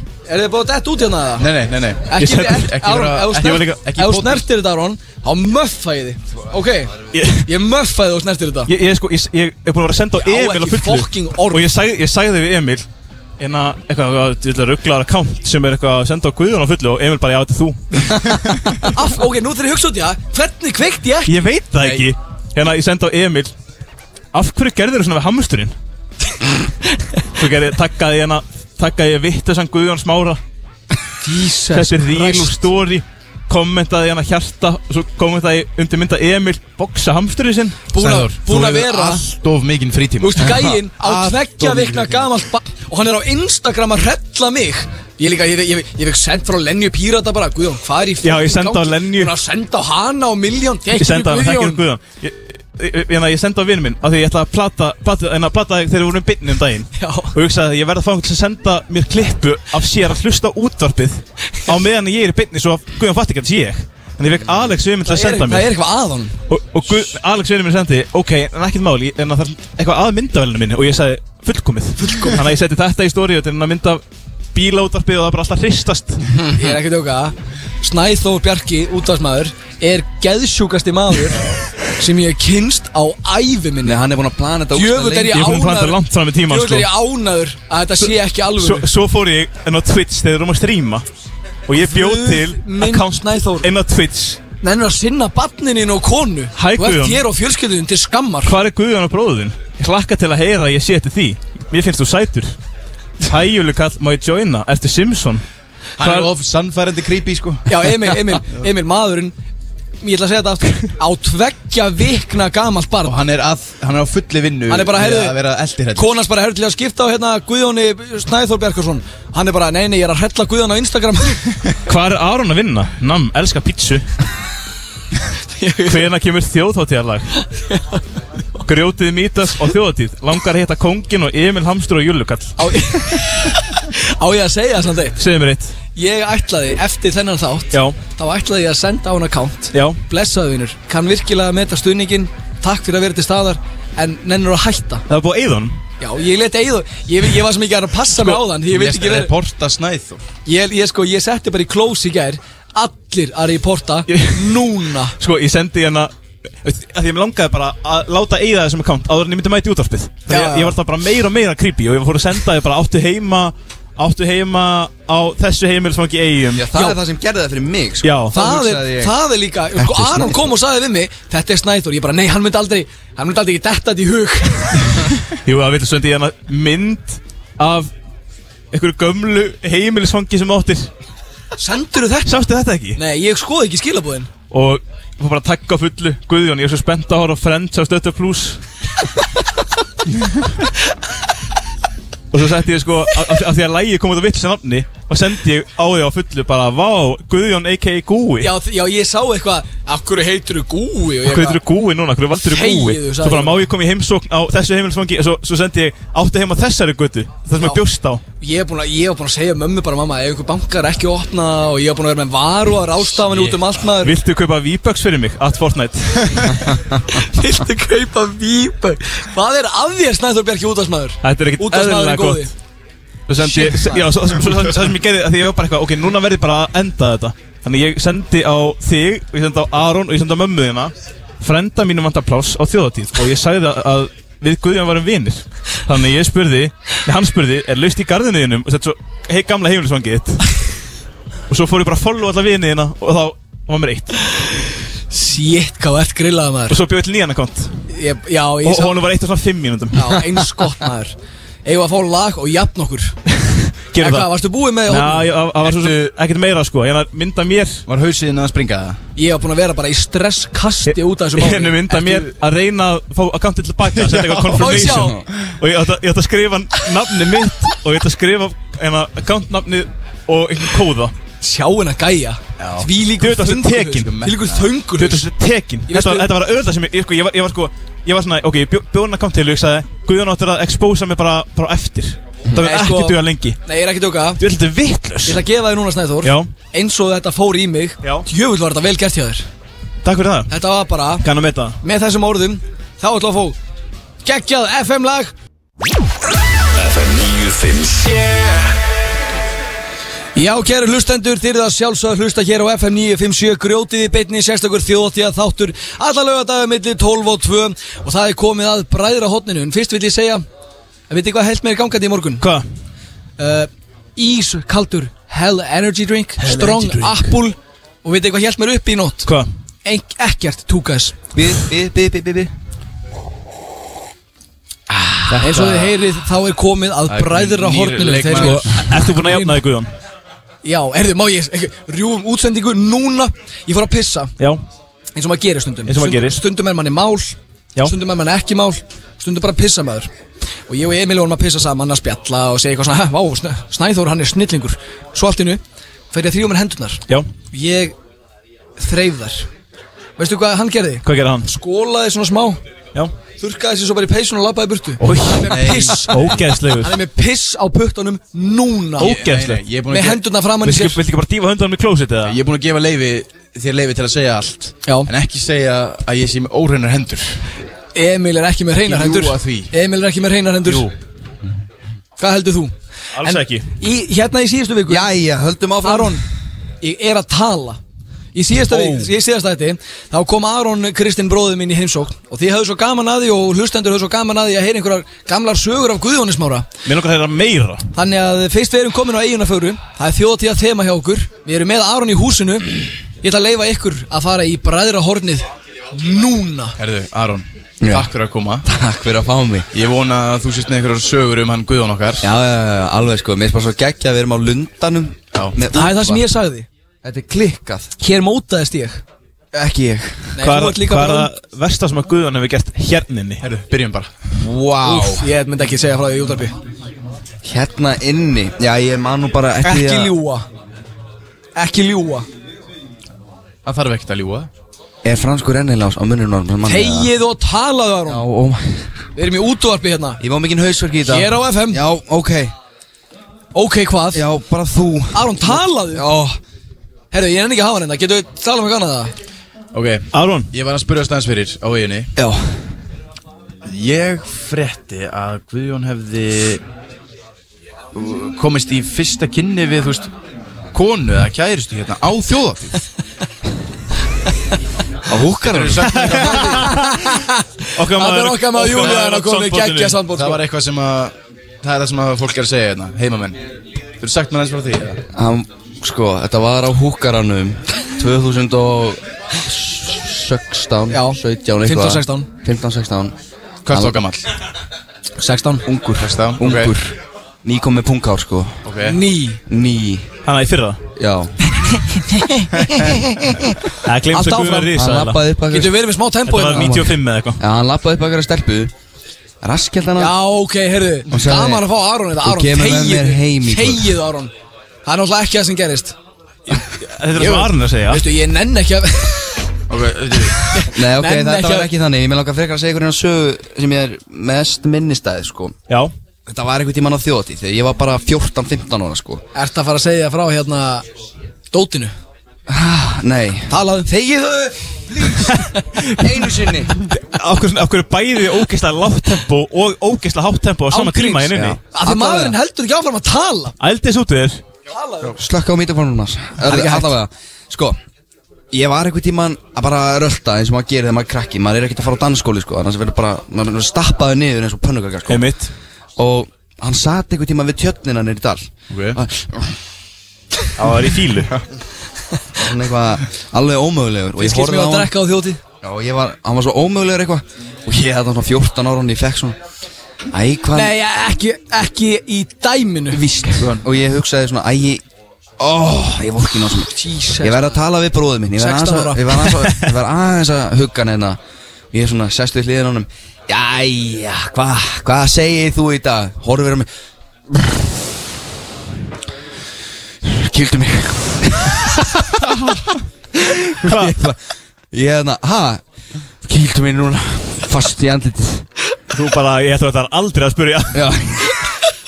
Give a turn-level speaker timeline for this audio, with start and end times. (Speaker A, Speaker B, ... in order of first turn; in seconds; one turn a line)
Speaker A: 0.3-1.5
Speaker B: 1.4-4.5
Speaker A: 2.0-8.7
Speaker C: 2.2-2.7
Speaker C: 3.4-3.8
Speaker C: 7.1-7.5
Speaker C: 8.7-12.8
Speaker A: 10.2-11.7
Speaker C: 13.4-18.9
Speaker A: 18.8-22.0
Speaker C: 21.3-23.5
Speaker C: 24.3-25.7
Speaker C: 27.4-30.4
Speaker A: 31.2-32.5
Speaker C: 31.7-37.8
Speaker A: 37.9-39.2
Speaker B: 38.0-42.2
Speaker A: 40.2-51.8
Speaker C: 48.2-49.3
Speaker C: 50.9-65.7
Speaker A: 57.0-57.3
Speaker A: 65.0-66.3
Speaker C: 66.5-74.0
Speaker A: 72.0-72.4
Speaker C: 74.5-76.2
Speaker A: 76.5-81.5
Speaker A: 82.0-84.0
Speaker D: 83.8-85.4
Speaker A: 84.7-88.9
Speaker C: 85.3-86.9
Speaker C: 88.0-91.0
Speaker C: 91.7-94.4
Speaker A: 91.7-93.7
Speaker A: 94.6-98.5
Speaker C: 96.5-97.2
Speaker C: 98.4-102.5
Speaker C: 103.2-105.4
Speaker B: 106.0-107.9
Speaker C: 106.0-106.3
Speaker A: 107.7-109.3
Speaker A: 110.0-113.1
Speaker B: 113.0-116.1
Speaker A: 114.7-115.3
Speaker A: 115.9-121.5
Speaker C: 121.8-124.0
Speaker A: 125.5-126.1
Speaker C: 125.9-127.3
Speaker A: 127.5-128.0
Speaker C: 128.6-132.9
Speaker A: 132.6-135.2
Speaker C: 135.2-135.7
Speaker A: 135.9-145.0
Speaker C: 139.7-140.0
Speaker C: 145.1-145.8
Speaker A: 146.0-149.3
Speaker C: 148.1-148.4
Speaker B: 148.6-150.2
Speaker A: 150.4-155.2
Speaker C: 154.1-154.6
Speaker C: 155.2-156.1
Speaker C: 156.6-166.7
Speaker A: 160.3-160.8
Speaker D: 166.5-169.2
Speaker C: 168.0-168.4
Speaker A: 168.3-175.1
Speaker D: 169.8-170.4
Speaker C: 175.3-177.9
Speaker C: 178.7-180.9
Speaker A: 181.6-182.4
Speaker C: 182.2-183.0
Speaker A: 182.9-184.3
Speaker C: 184.5-188.6
Speaker C: 192.3-198.5
Speaker A: 198.4-201.6
Speaker C: 201.2-208.2
Speaker A: 202.3-203.7
Speaker A: 208.4-214.1
Speaker C: 213.3-216.6
Speaker A: 217.1-222.5
Speaker C: 221.2-222.5
Speaker C: 223.3-240.5
Speaker A: 223.4-224.2
Speaker C: 241.5-244.3
Speaker A: 245.1-246.8
Speaker C: 246.7-247.7
Speaker A: 247.9-249.0
Speaker C: 248.6-250.2
Speaker A: 249.9-253.1
Speaker C: 253.3-254.3
Speaker A: 254.0-255.3
Speaker C: 254.9-257.8
Speaker B: 255.7-256.0
Speaker B: 257.9-259.0
Speaker A: 259.2-262.2
Speaker C: 260.9-271.1
Speaker B: 264.0-264.5
Speaker A: 264.5-265.2
Speaker A: 271.4-275.2
Speaker B: 272.6-272.9
Speaker C: 273.2-274.1
Speaker B: 274.0-274.7
Speaker C: 275.0-283.6
Speaker A: 275.9-276.3
Speaker A: 282.6-284.4
Speaker C: 284.4-285.4
Speaker A: 285.2-289.4
Speaker C: 286.2-286.5
Speaker C: 290.0-290.5
Speaker A: 290.5-291.2
Speaker C: 291.2-291.8
Speaker A: 291.8-293.6
Speaker A: 294.2-295.3
Speaker E: 296.8-298.7
Speaker A: 300.4-310.4
Speaker A: 311.1-312.4
Speaker A: 313.4-319.3
Speaker C: 316.4-317.3
Speaker A: 319.8-321.2
Speaker D: 321.3-322.5
Speaker B: 325.3-325.9
Speaker A: 325.4-329.6
Speaker B: 327.1-328.7
Speaker C: 328.3-329.9
Speaker A: 330.6-334.3
Speaker A: 335.1-340.1
Speaker C: 335.9-336.4
Speaker A: 340.7-345.6
Speaker A: 346.1-347.9
Speaker A: 348.8-349.5
Speaker A: 350.2-352.6
Speaker C: 351.0-351.5
Speaker A: 353.4-359.2
Speaker C: 355.0-357.0
Speaker B: 355.5-356.0
Speaker C: 359.0-359.6
Speaker B: 359.0-360.2
Speaker A: 359.9-361.0
Speaker C: 360.6-362.4
Speaker B: 362.2-367.4
Speaker A: 367.9-370.8
Speaker B: 368.8-369.7
Speaker C: 370.6-370.9
Speaker A: 372.2-375.1
Speaker C: 373.1-373.6
Speaker D: 374.9-376.2
Speaker A: 375.8-376.2
Speaker A: 376.8-377.8
Speaker A: 378.3-386.7
Speaker D: 378.7-379.1
Speaker C: 386.8-387.9
Speaker A: 387.9-396.8
Speaker B: 396.8-398.6
Speaker D: 397.8-398.1
Speaker D: 398.6-399.7
Speaker B: 399.7-402.3
Speaker D: 402.2-406.2
Speaker A: 405.7-406.7
Speaker D: 407.0-407.9
Speaker A: 408.0-409.0
Speaker D: 409.5-410.3
Speaker A: 410.4-411.3
Speaker C: 410.4-413.4
Speaker B: 413.4-414.1
Speaker D: 414.4-415.3
Speaker A: 414.8-416.5
Speaker D: 417.4-420.1
Speaker A: 419.6-420.4
Speaker A: 421.6-422.3
Speaker B: 423.6-424.5
Speaker D: 425.0-427.1
Speaker A: 426.6-428.2
Speaker D: 428.1-428.9
Speaker A: 429.1-430.2
Speaker D: 430.2-432.5
Speaker A: 431.1-431.8
Speaker A: 433.5-434.2
Speaker D: 434.1-436.4
Speaker A: 435.1-436.1
Speaker A: 437.1-439.1
Speaker B: 439.7-442.1
Speaker C: 440.1-440.5
Speaker D: 442.1-442.4
Speaker B: 443.6-446.6
Speaker B: 447.9-450.1
Speaker B: 450.7-452.8
Speaker D: 455.1-455.9
Speaker B: 455.4-456.8
Speaker C: 456.0-456.9
Speaker A: 456.1-460.4
Speaker C: 457.7-460.0
Speaker B: 460.1-463.4
Speaker B: 464.0-465.0
Speaker D: 465.1-473.1
Speaker A: 470.9-472.3
Speaker B: 473.6-474.3
Speaker D: 473.7-474.0
Speaker A: 475.2-475.6
Speaker D: 475.6-478.6
Speaker B: 476.0-476.7
Speaker B: 478.6-479.0
Speaker A: 478.8-479.4
Speaker D: 479.5-480.1
Speaker C: 480.2-480.8
Speaker D: 480.9-481.3
Speaker A: 482.0-482.9
Speaker C: 483.8-485.2
Speaker A: 484.1-484.7
Speaker D: 484.7-485.8
Speaker A: 485.5-486.8
Speaker C: 486.3-487.4
Speaker D: 486.5-488.7
Speaker D: 489.4-490.1
Speaker A: 490.0-494.3
Speaker D: 491.1-491.6
Speaker D: 492.2-493.9
Speaker A: 494.9-495.9
Speaker C: 496.5-498.0
Speaker A: 497.2-499.4
Speaker B: 499.7-500.6
Speaker A: 500.5-501.7
Speaker D: 500.7-505.6
Speaker D: 506.3-509.2
Speaker A: 509.3-510.8
Speaker A: 511.5-511.9
Speaker D: 512.5-515.4
Speaker A: 513.5-513.9
Speaker A: 515.1-515.4
Speaker C: 515.3-516.0
Speaker D: 515.9-516.8
Speaker C: 516.8-521.6
Speaker A: 520.7-523.5
Speaker D: 521.3-522.4
Speaker C: 523.6-524.4
Speaker A: 524.7-525.2
Speaker D: 525.1-527.8
Speaker A: 526.4-526.9
Speaker D: 528.5-535.3
Speaker C: 535.1-535.5
Speaker D: 536.0-539.5
Speaker B: 538.7-539.0
Speaker C: 540.5-541.3
Speaker D: 542.4-544.9
Speaker A: 544.2-545.4
Speaker D: 545.6-549.4
Speaker D: 550.1-550.7
Speaker A: 550.5-553.1
Speaker D: 552.9-554.8
Speaker D: 555.4-561.2
Speaker A: 556.7-557.6
Speaker A: 558.4-559.3
Speaker D: 561.7-566.7
Speaker D: 567.3-567.6
Speaker D: 570.0-574.2
Speaker C: 573.6-574.0
Speaker D: 574.7-575.6
Speaker D: 576.2-578.5
Speaker C: 578.9-580.9
Speaker D: 580.7-581.3